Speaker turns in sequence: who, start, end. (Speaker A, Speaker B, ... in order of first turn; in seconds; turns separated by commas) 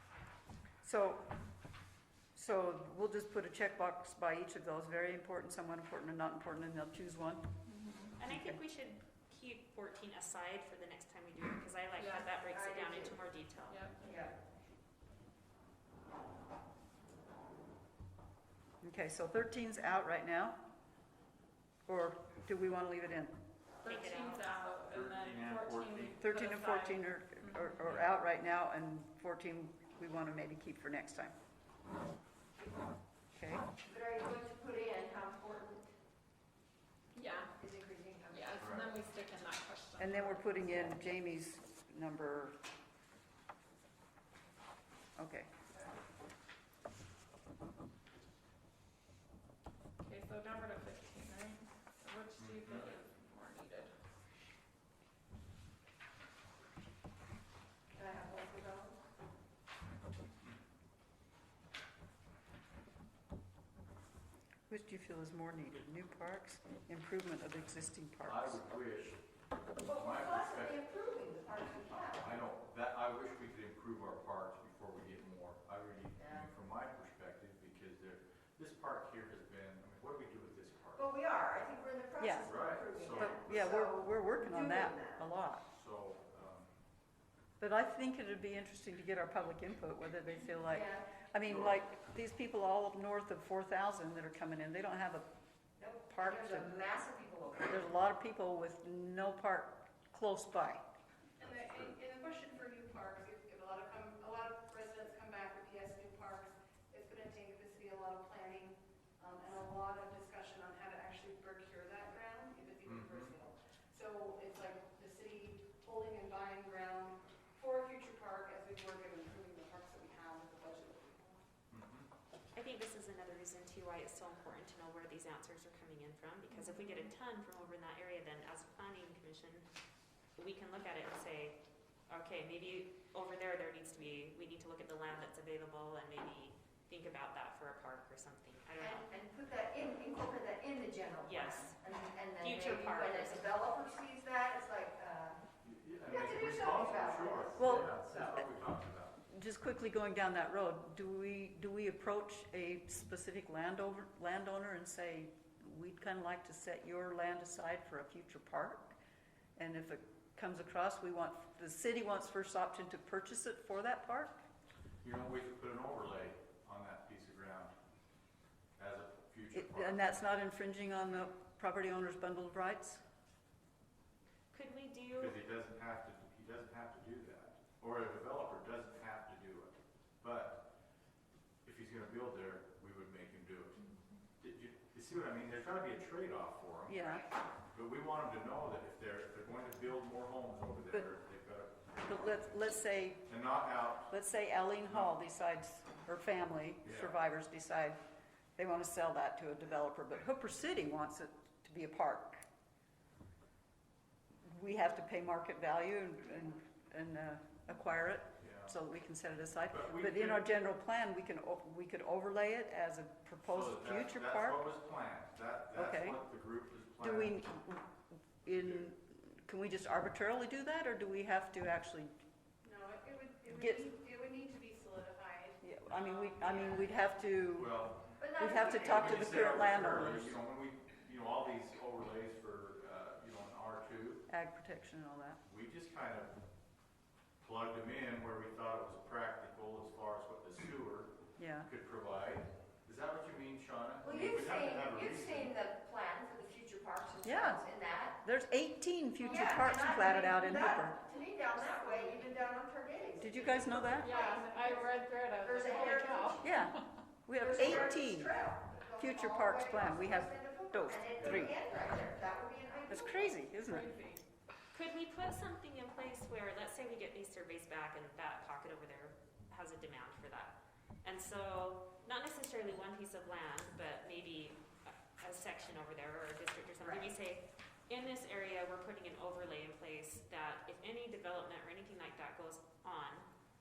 Speaker A: 0.8-1.2, Speaker A: 2.4-7.5, Speaker B: 7.7-8.2, Speaker C: 8.2-13.8, Speaker A: 8.2-8.6, Speaker B: 12.0-12.4, Speaker D: 12.5-13.2, Speaker B: 13.7-14.1, Speaker D: 14.0-14.3, Speaker A: 18.8-20.6, Speaker A: 21.9-23.3, Speaker B: 23.8-27.6, Speaker C: 23.9-24.6, Speaker E: 24.9-26.2, Speaker A: 26.2-31.3, Speaker E: 27.9-28.1, Speaker A: 33.3-33.7, Speaker D: 33.9-35.9, Speaker B: 37.1-37.5, Speaker D: 37.6-38.8, Speaker B: 38.3-40.6, Speaker E: 38.6-38.9, Speaker A: 40.0-42.5, Speaker A: 45.2-45.5, Speaker B: 50.0-53.9, Speaker E: 52.4-52.9, Speaker D: 57.9-59.0, Speaker A: 64.7-68.6, Speaker E: 68.3-69.2, Speaker D: 69.8-72.4, Speaker E: 69.8-70.8, Speaker E: 72.1-81.1, Speaker D: 76.2-76.5, Speaker D: 81.0-85.2, Speaker A: 82.2-85.6, Speaker E: 82.4-83.7, Speaker E: 85.7-86.7, Speaker A: 87.6-95.3, Speaker D: 90.7-91.1, Speaker D: 95.8-97.8, Speaker A: 95.9-96.8, Speaker A: 97.7-100.8, Speaker F: 101.4-121.4, Speaker E: 112.8-113.3, Speaker E: 121.7-122.1, Speaker C: 122.5-129.7, Speaker C: 130.4-139.1, Speaker D: 138.8-145.4, Speaker C: 141.2-141.8, Speaker C: 142.4-143.5, Speaker E: 145.6-149.2, Speaker D: 146.1-148.4, Speaker A: 147.6-148.0, Speaker A: 149.3-159.0, Speaker A: 159.6-164.4, Speaker E: 165.0-167.7, Speaker E: 168.8-170.1, Speaker A: 169.6-173.0, Speaker C: 174.5-175.4, Speaker E: 175.1-180.7, Speaker E: 181.7-183.8, Speaker E: 184.4-187.2, Speaker A: 186.9-187.2, Speaker E: 187.7-192.0, Speaker A: 192.1-193.2, Speaker E: 193.3-194.1, Speaker A: 194.1-198.0, Speaker E: 194.9-195.2, Speaker E: 196.8-197.2, Speaker A: 198.6-202.4, Speaker A: 204.4-214.7, Speaker E: 208.4-208.8, Speaker E: 209.7-210.5, Speaker E: 213.4-217.3, Speaker A: 215.8-216.2, Speaker A: 217.0-222.1, Speaker F: 222.6-226.9, Speaker A: 223.5-223.9, Speaker A: 225.6-227.8, Speaker E: 227.5-228.2, Speaker D: 228.2-229.7, Speaker A: 228.4-230.4, Speaker E: 228.8-234.2, Speaker A: 234.3-235.4, Speaker E: 235.5-236.4, Speaker E: 237.4-245.6, Speaker A: 241.4-241.7, Speaker D: 244.0-248.2, Speaker A: 247.2-247.7, Speaker A: 248.2-251.0, Speaker D: 249.2-256.5, Speaker A: 253.2-254.2, Speaker B: 254.0-256.5, Speaker A: 256.4-258.4, Speaker D: 257.4-263.3, Speaker A: 258.9-261.5, Speaker E: 261.2-261.5, Speaker A: 262.9-263.9, Speaker B: 263.7-264.2, Speaker C: 264.7-283.3